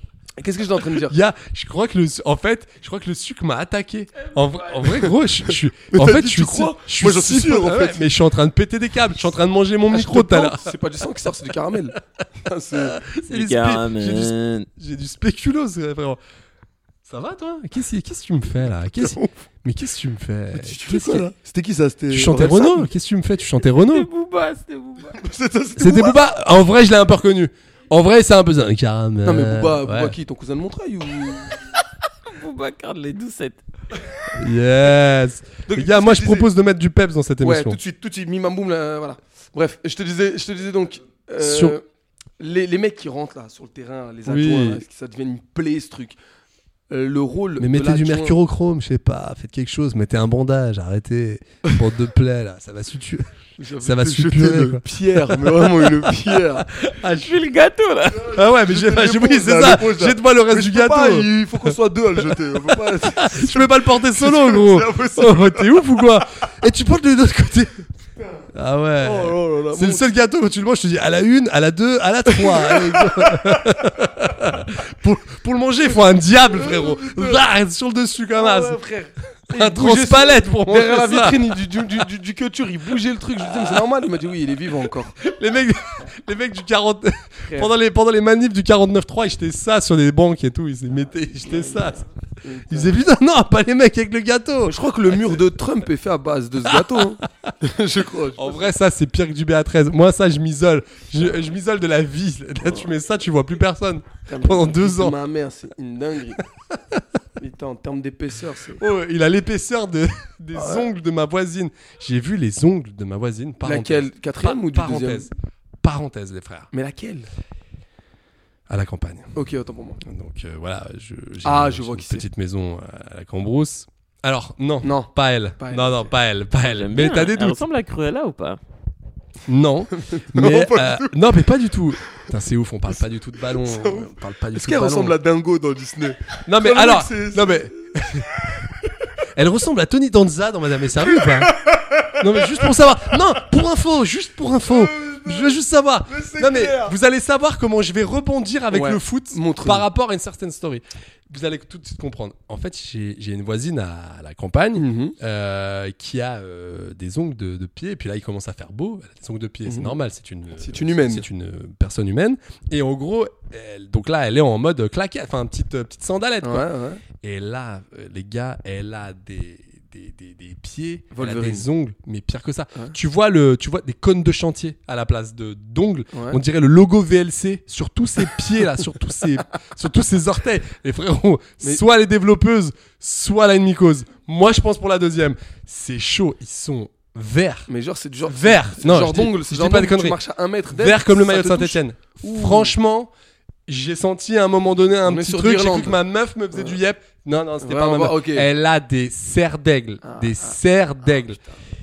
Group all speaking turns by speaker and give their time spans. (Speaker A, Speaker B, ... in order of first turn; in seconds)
Speaker A: 0.4-1.2, 5.9-8.1, 9.9-13.0, 19.0-19.3, 20.5-22.9, 25.1-26.2, 29.2-31.6, 35.7-36.5, 37.4-41.8, 42.4-46.2, 46.9-48.4, 53.6-56.7, 58.3-65.8, 69.0-70.1, 72.3-73.7, 76.5-77.4, 78.4-85.2, 92.4-93.0, 94.7-98.7, 104.3-106.5, 107.4-108.8, 110.5-110.8, 113.6-115.3, 116.7-117.3, 119.3-120.0, 121.4-122.2, 124.8-126.1, 130.0-131.2, 133.5-138.7, 141.1-142.7, 144.7-145.6, 146.1-147.0, 148.7-149.9, 154.8-155.2, 159.7-160.0, 160.6-161.3, 166.4-167.0, 171.1-171.7, 176.1-176.4, 187.7-192.8, 195.1-196.0, 197.6-198.5, 200.0-200.6
Speaker B: 1.0-10.7, 12.8-16.2, 17.1-21.3, 22.1-24.1, 25.8-30.1, 34.3-37.8, 41.4-41.8, 44.3-44.8, 47.6-57.4, 58.3-67.7, 68.5-78.8, 79.5-81.4, 85.2-92.0, 92.7-95.4, 96.7-97.5, 98.4-105.2, 106.8-107.0, 108.8-115.3, 115.8-116.7, 118.7-119.3, 120.0-127.6, 129.5-135.2, 136.5-138.3, 139.3-141.6, 142.2-187.7, 188.2-190.2, 190.7-193.1, 193.7-201.4
Speaker C: 4.3-4.6, 13.3-14.7, 23.7-25.2, 32.3-33.6, 57.1-58.3, 126.7-128.6